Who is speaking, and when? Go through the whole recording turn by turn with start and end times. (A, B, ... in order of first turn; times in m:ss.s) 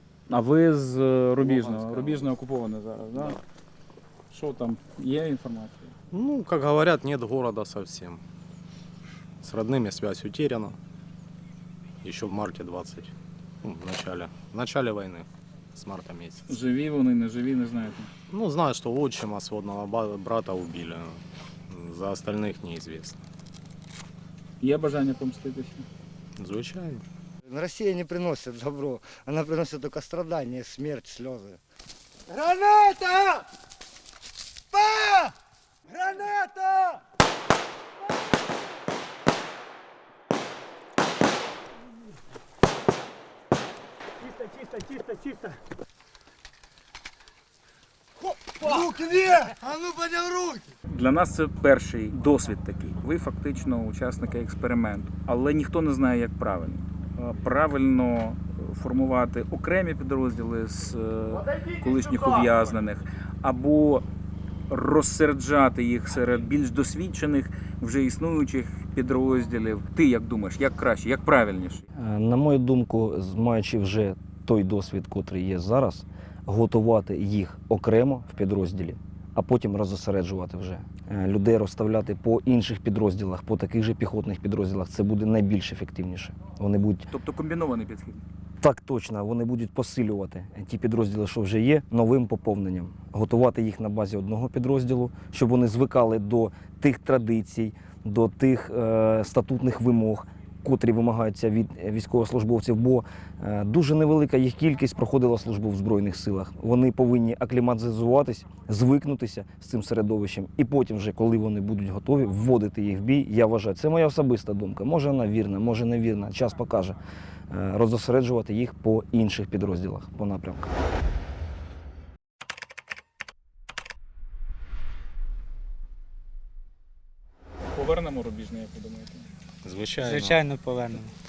0:00.3-0:03.4 A
0:01.4-0:02.3 B
0:04.3-0:05.9 A
0:06.1-0:08.2 C
0:09.4-0:10.8 C
0:12.0-0:16.5 C
0:16.4-0:18.1 A
0:18.3-0:23.2 C
0:24.6-0:25.8 A
0:26.4-0:27.0 C
0:27.5-0:31.6 D
0:34.7-0:35.2 D
0:36.1-0:36.5 D
0:50.9-1:04.0 A
1:04.7-1:11.8 A
1:11.9-1:27.1 E
1:27.1-1:28.2 A
1:28.6-1:57.0 E
1:57.5-2:00.8 E
2:07.7-2:09.2 A
2:09.6-2:10.4 C
2:10.0-2:11.1 B